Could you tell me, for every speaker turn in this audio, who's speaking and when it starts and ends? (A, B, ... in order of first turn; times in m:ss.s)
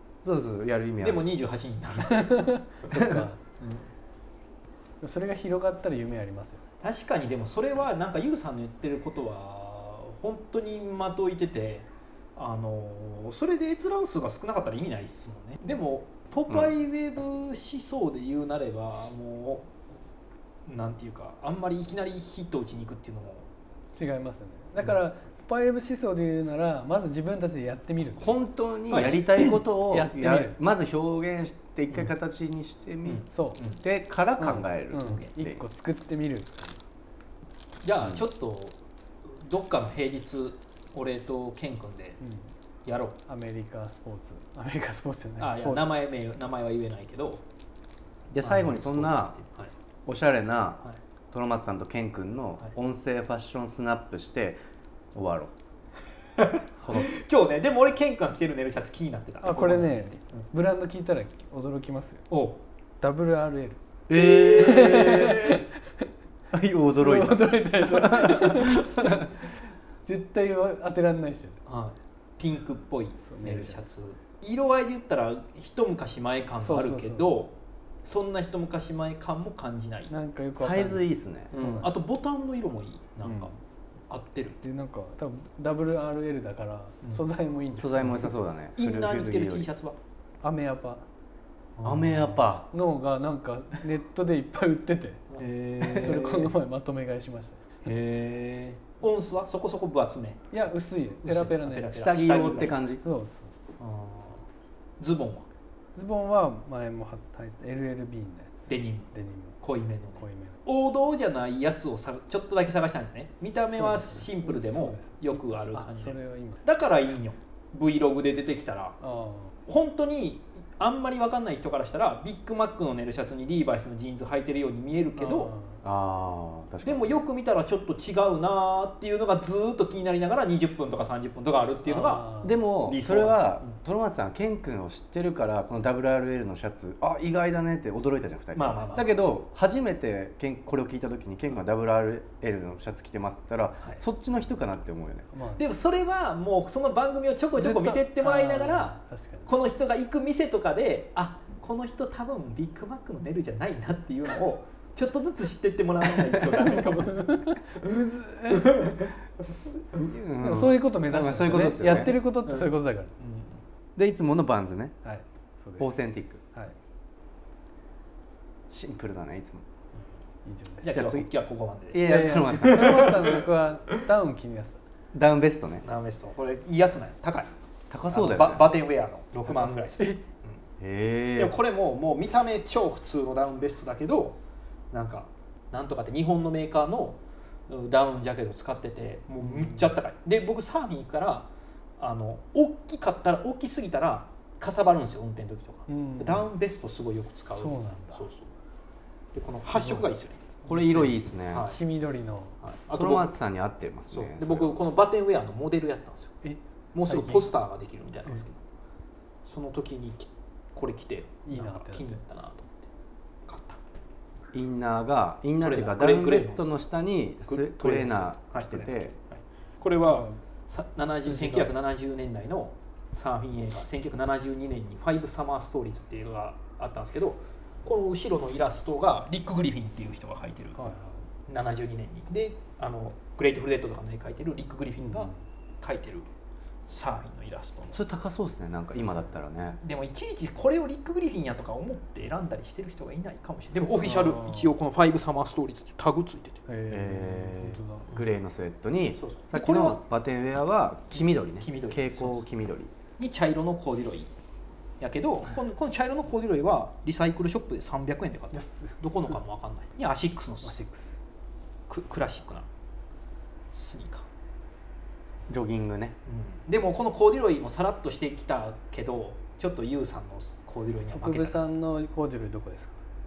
0:00.2-0:01.2 A
0:01.0-0:02.5 B
0:02.0-0:03.4 C
0:02.9-0:03.2 A
0:03.6-0:03.9 B
0:05.0-0:06.6 C
0:06.8-0:19.7 B
0:20.7-0:23.4 B
0:24.0-0:28.4 C
0:28.2-0:33.2 A
0:28.9-0:29.2 B
0:29.9-0:30.6 C
0:33.0-0:33.8 B
0:33.3-0:33.6 C
0:33.8-0:35.6 A
0:34.4-0:36.8 C
0:37.8-0:38.7 B
0:39.3-0:42.2 B
0:42.2-0:42.5 C
0:42.8-0:43.2 B
0:43.2-0:45.9 C
0:45.4-0:47.4 B
0:48.3-0:49.3 A
0:48.4-0:49.7 B
0:50.0-0:54.6 A
0:55.1-0:55.5 A
0:56.4-1:00.4 B
0:56.8-0:57.1 A
0:59.4-1:02.2 C
1:02.3-1:02.6 B
1:03.0-1:03.8 C
1:04.1-1:05.6 A
1:04.1-1:05.6 B
1:04.3-1:05.6 C
1:06.5-1:09.2 A
1:06.9-1:09.3 C
1:10.0-1:11.6 C
1:11.7-1:17.5 B
1:13.2-1:13.8 C
1:16.6-1:17.3 C
1:18.0-1:20.1 B
1:20.1-1:21.9 C
1:20.6-1:21.5 A
1:21.5-1:23.5 B
1:23.2-1:23.5 C
1:24.1-1:24.6 B
1:24.6-1:28.3 C
1:27.8-1:29.7 A
1:28.8-1:30.0 B
1:30.4-1:31.0 C
1:31.8-1:32.4 B
1:31.8-1:32.7 A
1:32.7-1:37.7 C
1:35.4-1:36.3 B
1:35.8-1:36.4 A
1:37.8-1:40.4 B
1:40.5-1:42.0 C
1:41.2-1:42.8 B
1:41.9-1:43.0 A
1:43.0-1:43.5 C
1:43.8-1:44.4 B
1:45.0-1:45.4 B
1:46.0-1:48.6 C
1:48.7-1:59.0 B
1:49.1-1:49.6 C
1:50.2-1:50.6 C
1:53.7-1:56.6 C
1:59.0-1:59.5 C
1:59.7-2:05.5 B
2:05.2-2:05.8 C
2:05.8-2:07.1 A
2:06.8-2:13.7 B
2:11.9-2:12.5 C
2:12.4-2:25.3 A
2:18.5-2:19.2 B
2:25.3-2:25.6 C
2:25.6-2:28.9 B
2:27.6-2:29.5 C
2:29.4-2:37.4 B
2:36.5-2:38.9 C
2:38.6-2:39.1 B
2:39.8-2:42.2 A
2:40.4-2:43.2 C
2:41.2-2:43.6 B
2:44.0-2:45.0 A
2:45.0-2:45.9 C
2:45.8-2:46.4 A
2:48.7-2:49.6 A
2:50.4-2:50.8 C
2:50.8-2:53.3 B
2:50.9-2:51.3 A
2:51.9-2:53.3 A
2:52.0-2:54.8 C
2:55.1-2:55.8 A
2:55.8-2:57.5 B
2:57.9-2:58.6 A
2:58.1-3:00.6 B
3:00.8-3:01.6 A
3:01.4-3:04.4 B
3:04.9-3:18.5 B
3:09.4-3:09.9 C
3:15.9-3:16.4 C
3:17.6-3:18.2 C
3:19.3-3:21.8 B
3:19.8-3:20.0 C
3:20.7-3:21.7 A
3:21.6-3:22.6 C
3:22.6-3:23.3 B
3:22.9-3:24.8 A
3:24.1-3:26.3 B
3:26.4-3:27.5 C
3:26.9-3:28.6 B
3:29.4-3:32.9 B
3:31.4-3:32.2 C
3:33.5-3:33.8 B
3:34.5-3:39.2 A
3:35.6-3:36.7 B
3:37.5-3:50.8 B
3:40.1-3:40.4 C
3:41.2-3:41.7 C
3:50.8-3:51.2 C
3:51.5-3:56.2 B
3:55.0-3:55.4 C
3:56.9-3:58.0 B
3:57.9-3:59.8 A
3:59.8-4:06.6 B
4:04.0-4:04.7 C
4:06.7-4:08.1 C
4:06.9-4:12.9 A
4:09.2-4:10.0 B
4:11.4-4:12.4 B
4:13.2-4:14.3 B
4:15.0-4:20.7 B
4:18.5-4:19.0 C
4:20.6-4:21.2 C
4:21.9-4:22.7 B
4:23.7-4:24.2 B
4:25.5-4:26.2 A
4:26.3-4:31.6 B
4:31.1-4:33.0 C